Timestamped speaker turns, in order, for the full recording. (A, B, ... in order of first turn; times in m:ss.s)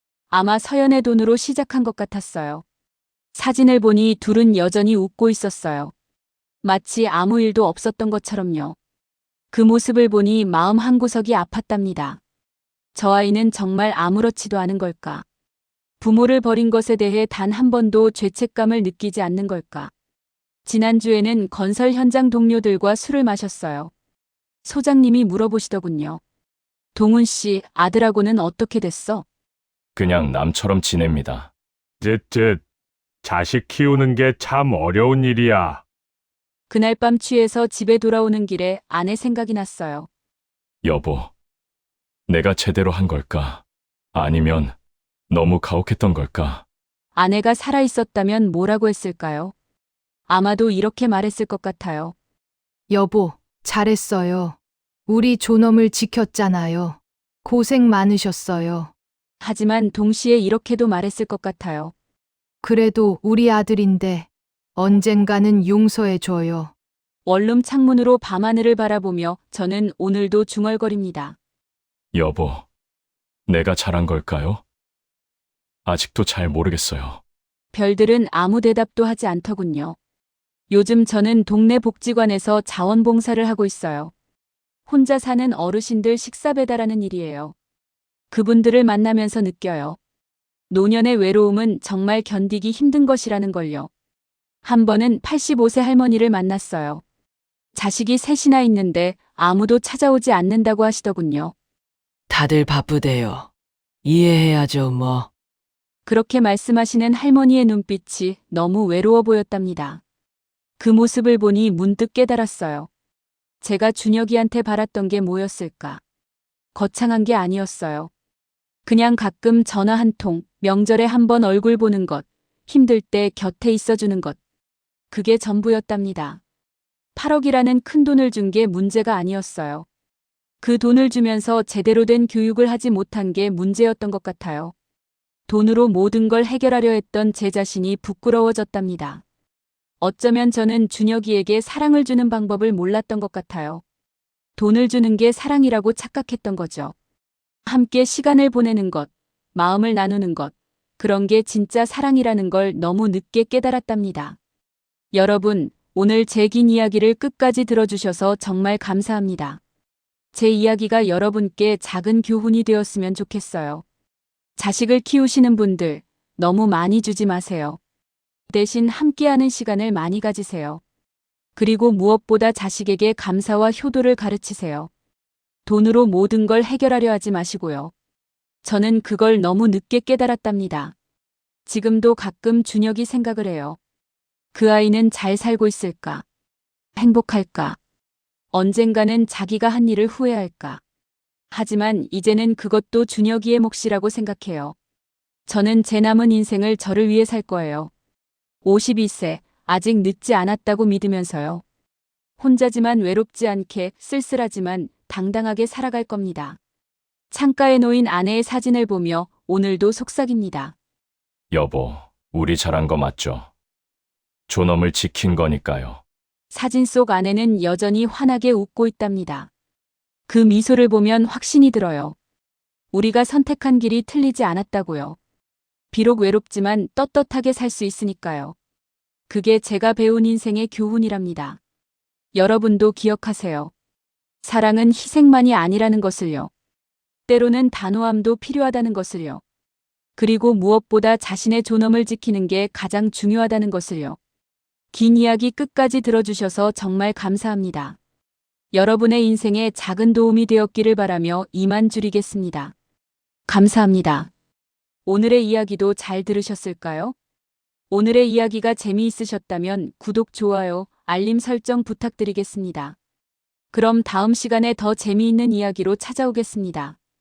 0:00.3-0:02.6 A
0:03.3-0:05.9 A
0:06.6-0:08.8 A
0:09.5-0:12.2 A
0:13.0-0:15.2 A
0:16.0-0:19.9 A
0:20.7-0:23.9 A
0:24.6-0:26.2 A
0:27.0-0:29.2 A
0:30.0-0:31.5 B
0:32.0-0:32.6 C
0:33.2-0:35.8 C
0:36.7-0:40.1 A
0:40.8-0:41.3 B
0:42.3-0:44.8 B
0:45.3-0:46.6 B
0:47.2-0:49.5 A
0:50.3-0:52.1 A
0:52.9-0:58.9 D
0:59.4-1:01.9 A
1:02.6-1:06.7 D
1:07.3-1:11.4 A
1:12.1-1:12.7 B
1:13.5-1:14.6 B
1:15.8-1:17.2 B
1:17.7-1:20.0 A
1:20.7-1:24.1 A
1:24.9-1:27.5 A
1:28.3-1:30.0 A
1:30.7-1:33.9 A
1:34.6-1:37.0 A
1:37.8-1:41.5 A
1:42.3-1:43.5 E
1:44.0-1:45.3 E
1:46.1-1:50.0 A
1:50.8-1:52.9 A
1:53.6-1:56.0 A
1:56.8-1:58.1 A
1:58.9-2:04.4 A
2:05.1-2:06.4 A
2:07.2-2:09.9 A
2:10.6-2:14.7 A
2:15.5-2:19.2 A
2:20.0-2:23.8 A
2:24.6-2:26.9 A
2:27.7-2:34.4 A
2:35.1-2:39.6 A
2:40.3-2:43.8 A
2:44.6-2:47.8 A
2:48.5-2:50.8 A
2:51.6-2:54.9 A
2:55.7-2:57.9 A
2:58.6-3:00.9 A
3:01.7-3:03.8 A
3:04.5-3:06.2 A
3:07.0-3:07.8 A
3:08.5-3:10.8 A
3:11.5-3:14.8 A
3:15.5-3:17.9 A
3:18.6-3:21.6 A
3:22.4-3:26.6 A
3:27.3-3:30.8 A
3:31.5-3:33.5 B
3:34.5-3:36.0 B
3:36.5-3:39.5 A
3:40.3-3:42.2 A
3:42.9-3:45.2 A
3:45.9-3:48.6 A
3:49.3-3:51.6 A
3:52.3-3:53.7 A
3:54.4-3:56.5 A
3:57.3-3:59.4 A
4:00.2-4:04.2 A
4:04.9-4:08.0 A
4:08.7-4:12.7 A
4:13.5-4:14.3 A
4:15.1-4:17.2 A
4:17.9-4:23.0 A
4:23.7-4:27.0 A